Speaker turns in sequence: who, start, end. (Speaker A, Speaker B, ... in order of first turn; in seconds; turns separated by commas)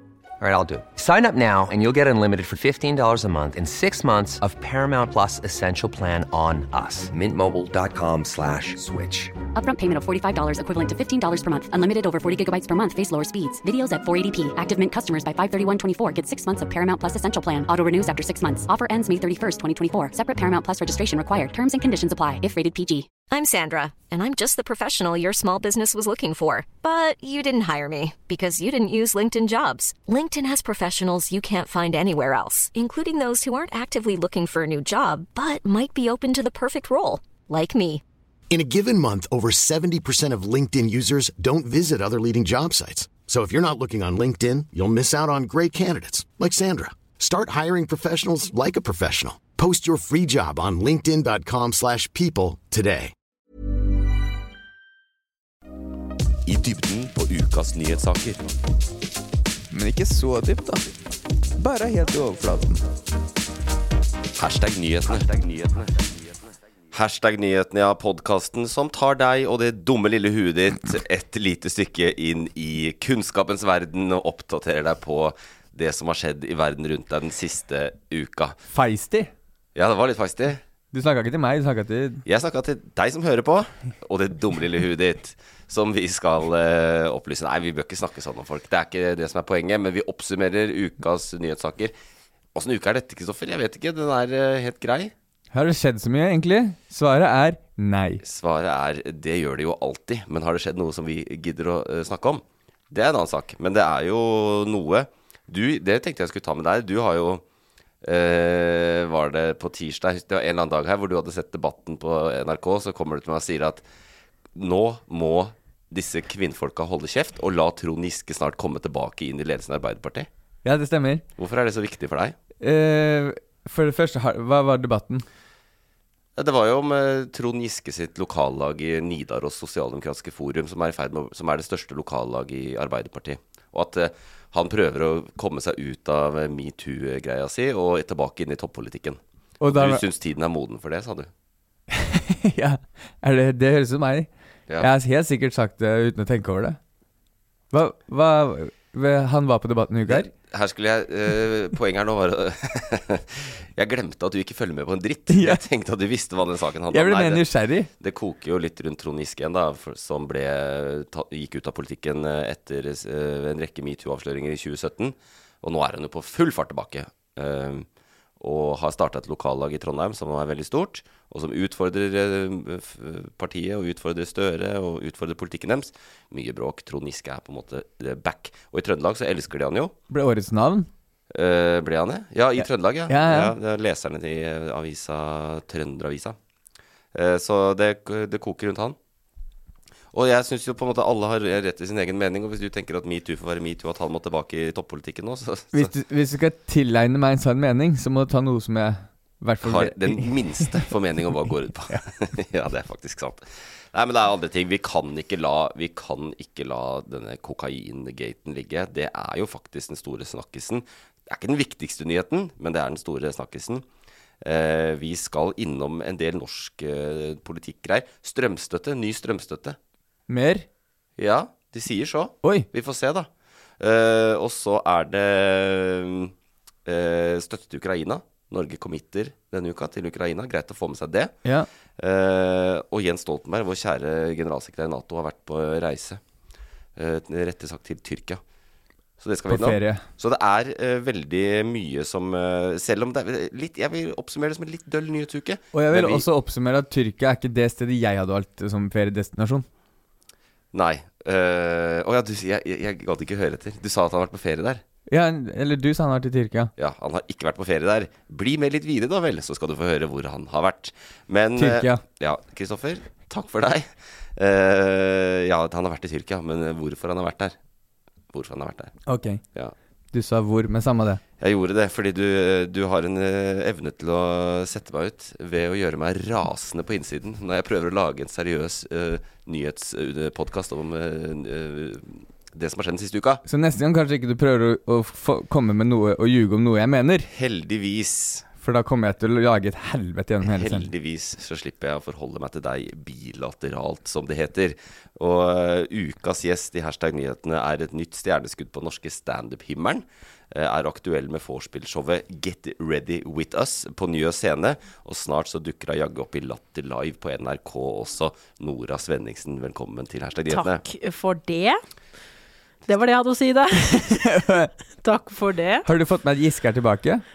Speaker A: 0.4-9.3, Speaker B: 9.5-23.1, Speaker C: 23.3-38.0, Speaker D: 38.5-53.1, Speaker E: 56.5-58.4, Speaker F: 59.7-60.9, Speaker F: 61.6-62.8, Speaker E: 64.4-66.0, Speaker E: 66.9-78.5, Speaker F: 78.7-79.3, Speaker E: 79.7-80.6, Speaker F: 80.9-82.2, Speaker E: 82.2-91.9, Speaker E: 92.5-95.1, Speaker F: 95.5-98.2, Speaker E: 98.2-107.4, Speaker E: 108.0-113.8, Speaker E: 114.5-120.3, Speaker F: 120.6-121.2, Speaker E: 121.4-122.3, Speaker F: 122.6-125.2, Speaker E: 126.3-141.3, Speaker F: 139.6-140.0, Speaker F: 141.9-144.3, Speaker F: 144.8-146.8, Speaker F: 147.7-150.3, Speaker E: 150.1-157.4, Speaker F: 155.3-155.6, Speaker F: 156.9-157.9, Speaker E: 158.0-167.8, Speaker E: 168.4-179.9, Speaker F: 180.1-180.9, Speaker E: 181.3-186.3, Speaker F: 182.6-183.5, Speaker E: 187.1-188.9, Speaker E: 190.1-195.9, Speaker F: 195.7-200.8, Speaker E: 199.6-213.8, Speaker E: 214.4-219.8, Speaker F: 220.3-220.7, Speaker E: 221.2-223.3, Speaker E: 223.8-226.3, Speaker E: 226.8-231.3, Speaker E: 232.0-236.2, Speaker E: 236.9-238.4, Speaker E: 239.2-246.2, Speaker F: 239.5-240.0, Speaker F: 245.7-249.7, Speaker E: 250.7-254.8, Speaker F: 255.1-256.7, Speaker E: 256.8-267.5, Speaker F: 261.6-262.0, Speaker E: 268.3-268.9, Speaker F: 269.1-269.4, Speaker F: 270.1-271.2, Speaker E: 271.4-283.4, Speaker F: 283.4-287.3, Speaker E: 287.3-288.5, Speaker F: 288.6-290.9, Speaker E: 290.4-310.8, Speaker G: 310.5-311.8, Speaker G: 312.9-314.3, Speaker F: 314.1-314.7, Speaker G: 315.0-315.9, Speaker F: 315.9-317.2